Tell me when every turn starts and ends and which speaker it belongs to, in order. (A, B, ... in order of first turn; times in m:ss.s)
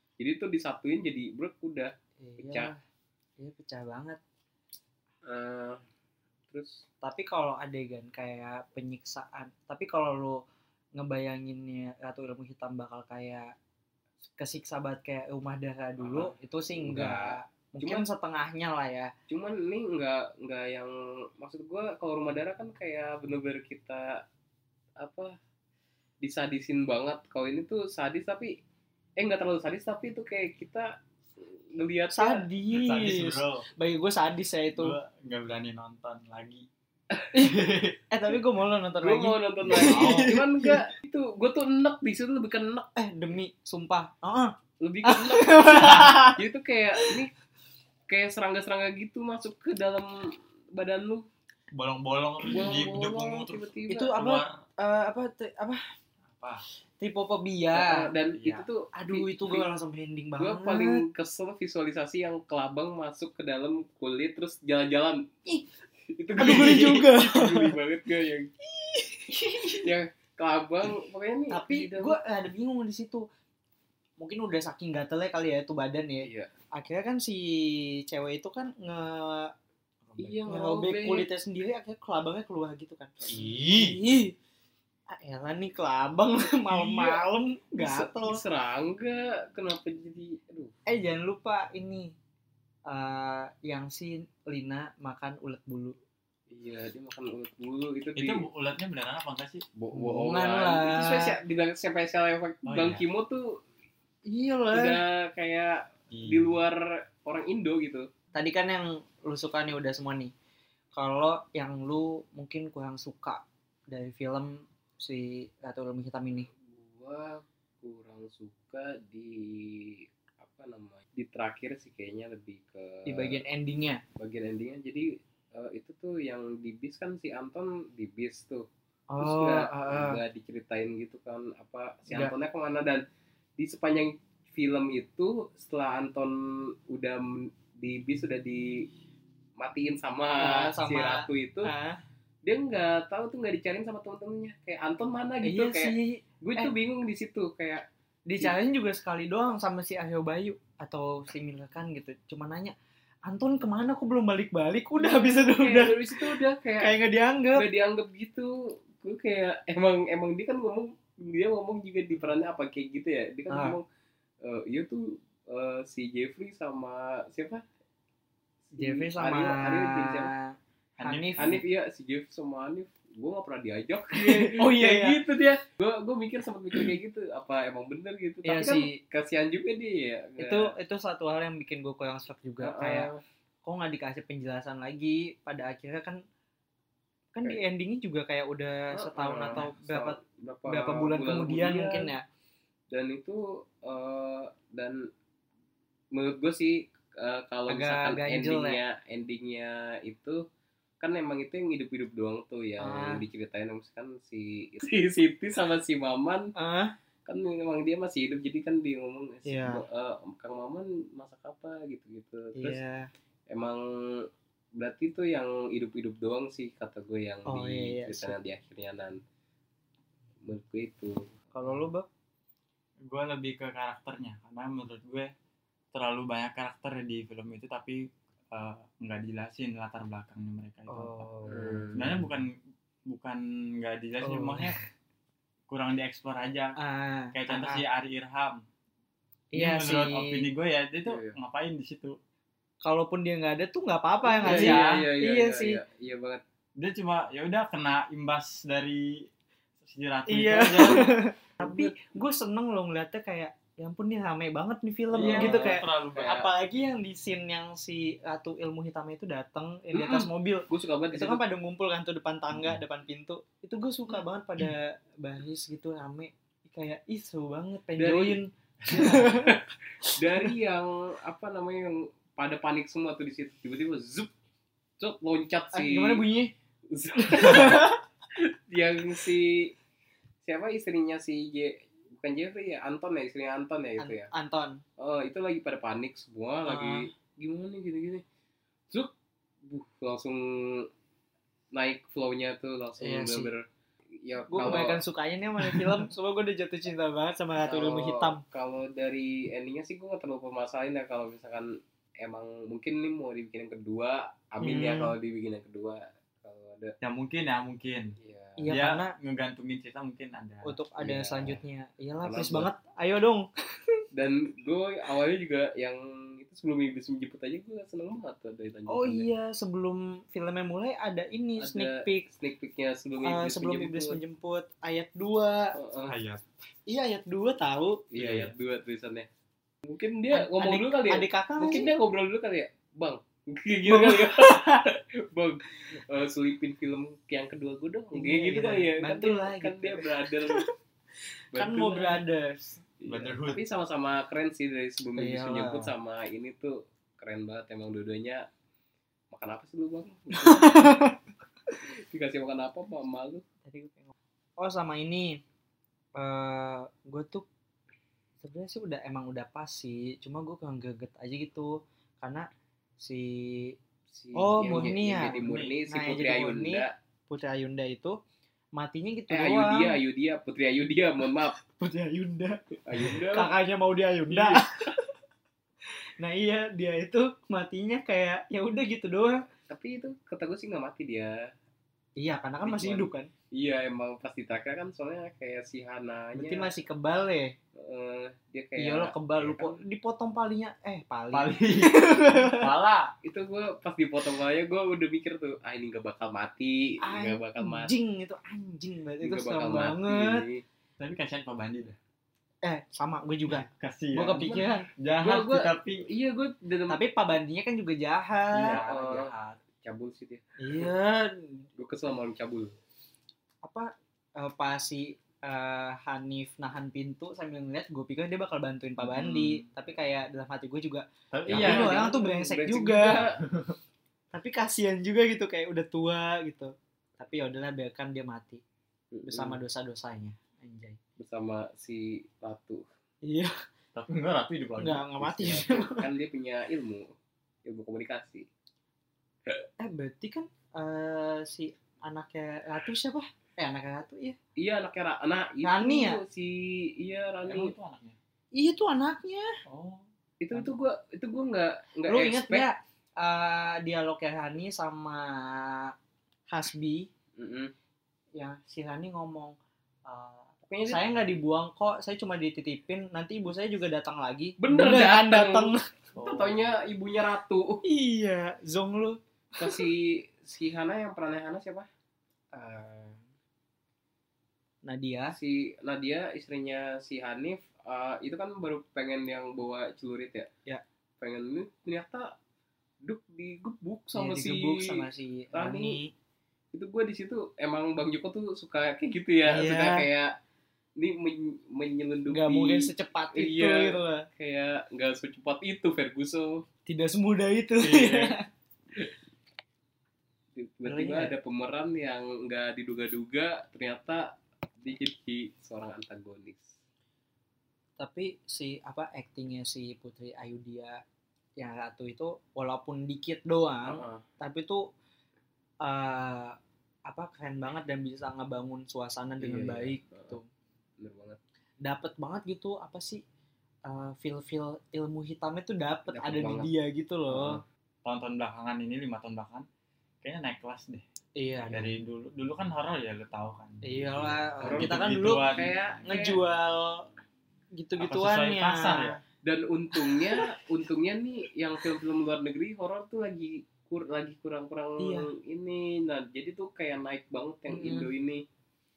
0:00.2-0:02.7 A
0:02.2-0:02.8 B
0:03.4-0:04.2 B
0:05.2-0:05.8 A
0:06.5-0:06.8 A
0:07.0-0:10.4 B
0:11.0-0:13.5 B
0:14.4-0:19.1 B
0:16.0-0:18.0 A
0:19.3-0:24.2 A
0:25.0-0:25.4 A
0:26.2-0:28.6 A
0:29.2-0:32.5 A
0:32.1-0:35.0 B
0:32.7-0:33.7 C
0:34.8-0:36.7 C
0:37.3-0:40.9 B
0:37.4-0:38.0 C
0:39.0-0:42.9 A
0:39.7-0:40.4 C
0:43.0-0:46.4 B
0:44.8-0:47.3 A
0:48.1-0:51.3 A
0:51.7-0:54.6 C
0:52.4-0:54.1 A
0:53.9-0:55.8 B
0:56.3-0:56.6 C
0:57.0-0:58.1 B
0:57.7-0:59.6 A
0:58.3-0:58.6 C
0:58.9-1:01.0 B
1:00.4-1:05.5 A
1:06.1-1:08.5 A
1:06.4-1:07.8 B
1:08.6-1:09.9 B
1:09.6-1:12.2 A
1:11.5-1:13.3 B
1:14.2-1:19.5 B
1:16.2-1:16.5 A
1:20.0-1:20.4 C
1:20.2-1:21.3 A
1:20.5-1:23.1 B
1:23.3-1:24.0 C
1:23.7-1:24.4 B
1:25.1-1:28.4 B
1:26.7-1:27.2 A
1:27.8-1:30.8 A
1:30.9-1:32.2 B
1:32.9-1:36.0 B
1:36.5-1:38.4 A
1:38.2-1:39.6 C
1:39.8-1:43.6 A
1:39.9-1:41.4 B
1:42.7-1:43.0 C
1:44.3-1:45.0 B
1:44.7-1:48.1 A
1:46.1-1:46.6 C
1:48.4-1:50.3 B
1:51.0-1:56.5 B
1:56.6-2:03.4 A
2:03.1-2:04.0 B
2:04.2-2:08.7 A
2:09.1-2:10.2 B
2:09.2-2:13.0 A
2:12.1-2:12.3 B
2:13.6-2:18.9 A
2:19.6-2:21.7 A
2:20.4-2:22.0 B
2:22.4-2:27.9 A
2:25.4-2:26.7 B
2:28.3-2:32.8 B
2:33.3-2:37.7 B
2:35.0-2:37.0 A
2:37.6-2:43.8 A
2:43.5-2:43.8 B
2:44.4-2:47.6 A
2:48.7-2:50.3 A
2:48.8-2:51.6 B
2:51.0-2:51.6 C
2:51.4-3:00.7 A
2:54.1-2:55.2 B
2:58.4-2:59.0 B
3:00.4-3:03.1 B
3:02.6-3:03.2 A
3:03.6-3:06.2 B
3:07.4-3:12.2 B
3:08.9-3:12.1 A
3:12.9-3:15.1 A
3:16.1-3:20.4 A
3:17.7-3:18.8 B
3:21.0-3:26.5 A
3:22.8-3:23.2 B
3:26.6-3:26.9 B
3:27.3-3:32.8 A
3:29.5-3:29.8 B
3:32.6-3:33.1 B
3:33.5-3:39.2 A
3:37.5-3:38.4 B
3:40.4-3:41.2 A
3:41.5-3:42.1 B
3:43.1-3:45.3 C
3:45.9-3:51.3 C
3:50.9-3:51.9 B
3:51.5-3:52.2 A
3:51.9-3:52.5 C
3:53.1-3:54.8 C
3:54.2-3:54.8 B
3:55.7-3:56.8 C
3:56.8-3:57.8 B
3:57.3-3:58.6 C
3:59.5-4:00.5 B
3:59.6-4:02.2 C
4:01.1-4:01.4 A
4:02.8-4:05.8 B
4:04.3-4:06.4 A
4:04.4-4:05.0 C
4:06.8-4:09.3 C
4:09.8-4:11.1 C
4:10.3-4:30.5 B
4:11.6-4:11.9 A
4:15.1-4:16.3 C
4:15.2-4:16.5 A
4:19.9-4:21.4 A
4:28.0-4:28.4 A
4:28.9-4:29.2 C
4:28.9-4:34.3 A
4:35.0-4:36.2 A
4:35.7-4:36.5 B
4:36.9-4:39.8 A
4:37.2-4:38.0 B
4:40.4-4:44.3 A
4:44.0-4:44.8 B
4:45.0-4:48.2 A
4:46.7-4:47.1 B
4:49.7-4:50.9 A
4:51.7-4:53.6 A
4:53.0-4:53.5 B
4:54.2-4:55.0 A
4:54.5-4:58.4 B
4:55.6-4:55.9 C
4:57.6-5:07.0 A
5:04.6-5:05.1 B
5:07.0-5:08.2 C
5:08.2-5:08.7 A
5:08.6-5:09.1 B
5:08.7-5:10.7 C
5:10.6-5:14.0 B
5:11.0-5:11.6 A
5:12.2-5:12.7 A
5:14.1-5:19.3 A
5:18.9-5:22.3 B
5:21.6-5:24.2 A
5:23.2-5:25.8 B
5:25.8-5:26.2 A
5:26.1-5:26.4 C
5:26.9-5:28.0 B
5:28.1-5:29.3 A
5:28.2-5:28.5 C
5:29.8-5:40.7 A
5:30.3-5:31.9 B
5:33.9-5:34.8 B
5:38.1-5:40.7 B
5:41.5-5:42.2 A
5:41.6-5:42.8 B
5:43.0-5:48.5 A
5:43.1-5:43.6 C
5:45.2-5:45.9 B
5:49.3-5:51.0 A
5:50.3-5:51.2 B
5:52.1-5:53.4 A
5:53.7-5:55.4 B
5:56.2-5:57.5 B
5:58.4-6:02.5 B
6:03.0-6:03.8 B
6:04.1-6:06.9 A
6:04.4-6:08.2 B
6:05.3-6:05.8 C
6:08.8-6:10.0 B
6:09.3-6:11.6 A
6:11.6-6:14.9 B
6:12.8-6:13.5 A
6:14.3-6:14.9 A
6:16.2-6:19.5 B
6:19.7-6:21.4 A
6:22.2-6:23.3 B
6:22.6-6:26.7 A
6:26.4-6:27.6 B
6:27.8-6:29.8 A
6:28.8-6:32.7 B
6:31.3-6:33.1 C
6:33.2-6:37.9 A
6:37.0-6:40.4 B
6:39.2-6:40.6 A
6:41.0-6:42.0 C
6:42.6-6:44.9 B
6:43.5-6:46.1 C
6:44.3-6:44.7 A
6:45.2-6:47.0 A
6:46.9-6:49.3 B
6:48.5-6:49.6 C
6:48.6-6:50.9 A
6:50.6-6:51.7 B
6:51.8-6:52.7 A
6:53.6-7:03.2 B
6:59.0-6:59.7 C
7:01.3-7:02.0 C
7:01.5-7:03.4 A
7:03.2-7:03.8 C
7:04.3-7:08.6 B
7:09.1-7:09.6 A
7:09.3-7:11.0 B
7:11.2-7:12.9 A
7:13.2-7:13.5 B
7:13.9-7:15.7 C
7:14.8-7:16.1 B
7:15.6-7:17.1 A
7:17.6-7:18.5 A
7:19.8-7:24.4 B
7:24.6-7:27.7 A
7:25.6-7:26.2 B
7:27.4-7:28.2 C
7:28.6-7:29.5 B
7:29.7-7:30.1 C
7:30.4-7:32.7 A
7:32.1-7:35.9 B
7:36.5-7:37.1 B
7:37.4-7:37.7 A
7:38.4-7:45.8 B
7:40.7-7:41.0 A
7:44.6-7:47.8 A
7:46.2-7:46.8 C
7:47.8-7:49.8 B
7:49.6-7:51.9 A
7:52.5-7:53.2 B
7:54.8-7:55.4 B
7:55.4-8:00.5 A
8:01.2-8:02.4 A
8:03.0-8:06.0 A
8:04.2-8:06.1 B
8:06.7-8:10.3 A
8:09.5-8:10.1 B
8:11.0-8:16.6 A
8:12.3-8:14.3 B
8:16.9-8:18.5 B
8:17.8-8:18.4 C
8:20.6-8:26.7 A
8:20.9-8:21.3 B
8:28.0-8:31.0 B
8:31.6-8:34.9 B
8:33.9-8:34.2 A
8:35.8-8:40.5 B
8:39.4-8:40.4 A
8:41.0-8:41.4 A
8:41.8-8:43.2 B
8:43.9-8:47.6 B
8:46.1-8:46.7 A
8:47.3-8:47.6 A
8:48.0-8:49.7 C
8:50.2-8:51.0 C
8:51.4-8:51.9 B
8:51.7-8:55.8 C
8:53.8-8:57.1 B
8:54.6-8:56.4 A
8:57.8-8:59.2 B
8:58.0-8:59.2 C
8:59.4-9:08.4 A
9:00.0-9:00.4 B
9:05.0-9:05.3 B
9:07.7-9:08.1 B